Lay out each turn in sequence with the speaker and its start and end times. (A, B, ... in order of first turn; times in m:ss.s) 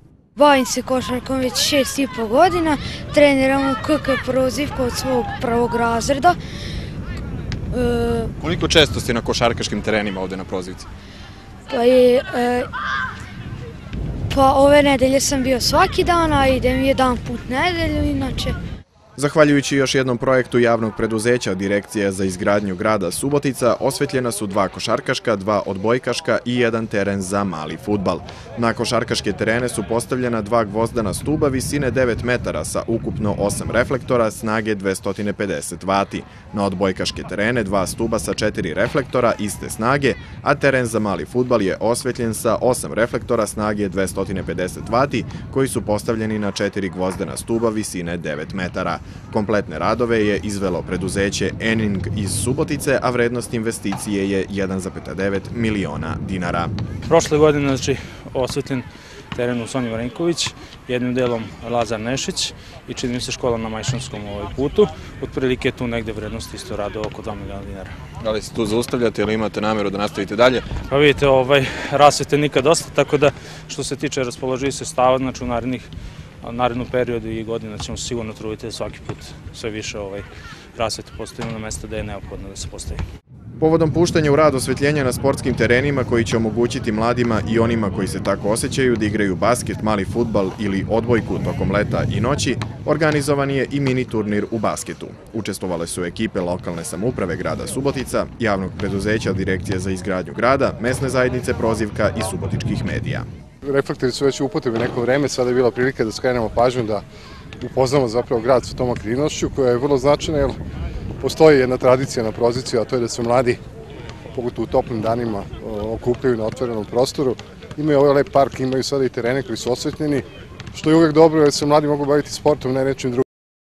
0:00.4-0:06.4 A
0:07.7-0:08.3 A
0:08.4-0:10.9 B
0:11.7-0:12.7 A
0:14.3-0:18.6 A
0:19.2-0:56.7 B
0:57.1-1:07.9 C
1:08.2-1:10.7 B
1:10.9-1:15.9 C
1:16.4-1:23.0 C
1:23.6-1:43.3 B
1:43.6-1:47.0 D
1:47.6-1:50.6 D
1:51.2-1:53.6 D
1:54.3-2:03.2 D